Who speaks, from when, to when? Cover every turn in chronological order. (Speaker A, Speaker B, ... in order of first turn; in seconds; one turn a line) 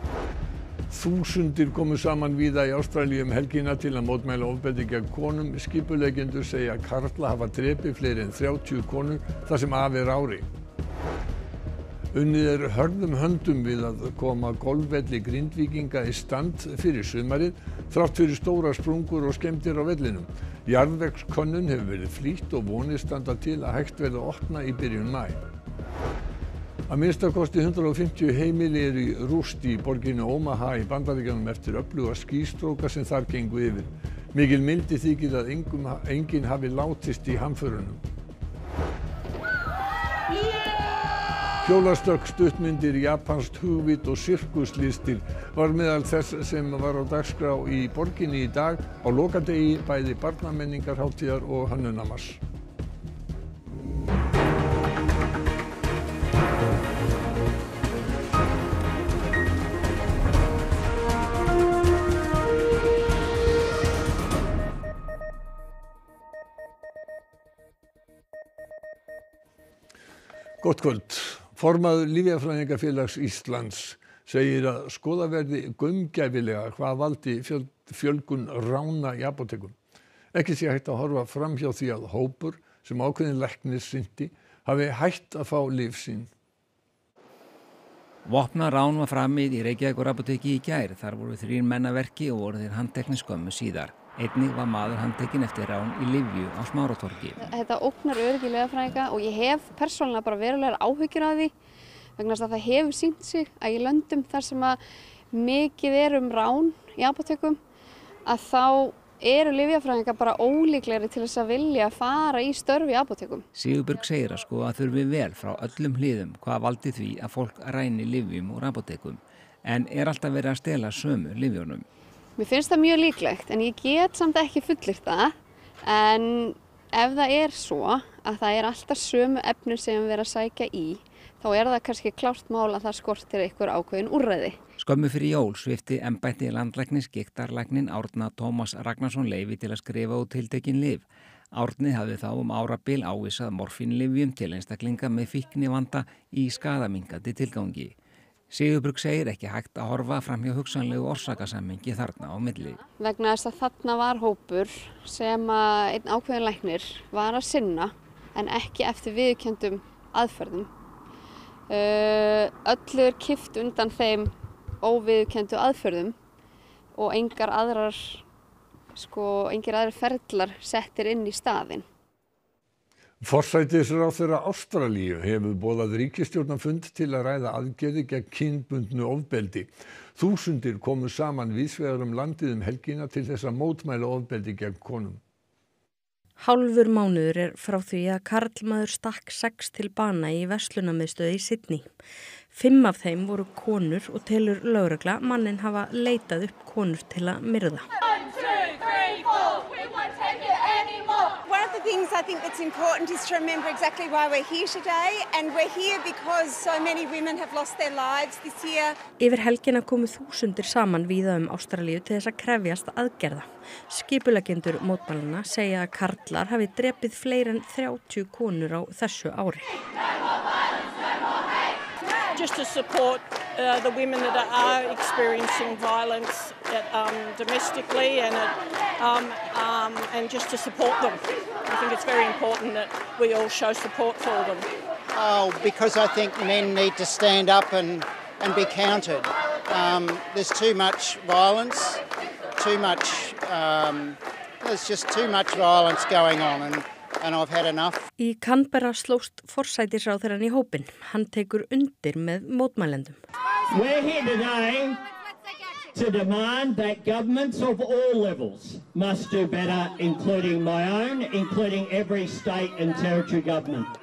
Speaker A: 0.9-10.5
Speaker A: 12.1-25.4
Speaker A: 26.9-38.0
Speaker A: 41.6-52.4
Speaker A: 70.6-79.8
Speaker A: 80.3-86.3
Speaker B: 88.2-97.4
Speaker C: 97.4-101.5
Speaker C: 102.2-104.8
Speaker C: 105.3-107.6
Speaker C: 108.3-113.5
Speaker B: 113.6-121.8
Speaker C: 122.4-134.6
Speaker B: 134.8-147.9
Speaker B: 148.5-152.8
Speaker C: 153.0-160.7
Speaker C: 161.7-166.2
Speaker C: 167.0-168.2
Speaker C: 168.9-171.8
Speaker A: 173.2-185.2
Speaker D: 186.4-191.9
Speaker D: 192.5-197.8
Speaker E: 201.4-209.1
Speaker D: 209.1-219.8
Speaker F: 222.3-234.7
Speaker G: 235.2-241.9
Speaker G: 242.6-247.9
Speaker D: 248.2-253.2
Speaker H: 253.7-255.0
Speaker H: 255.9-263.9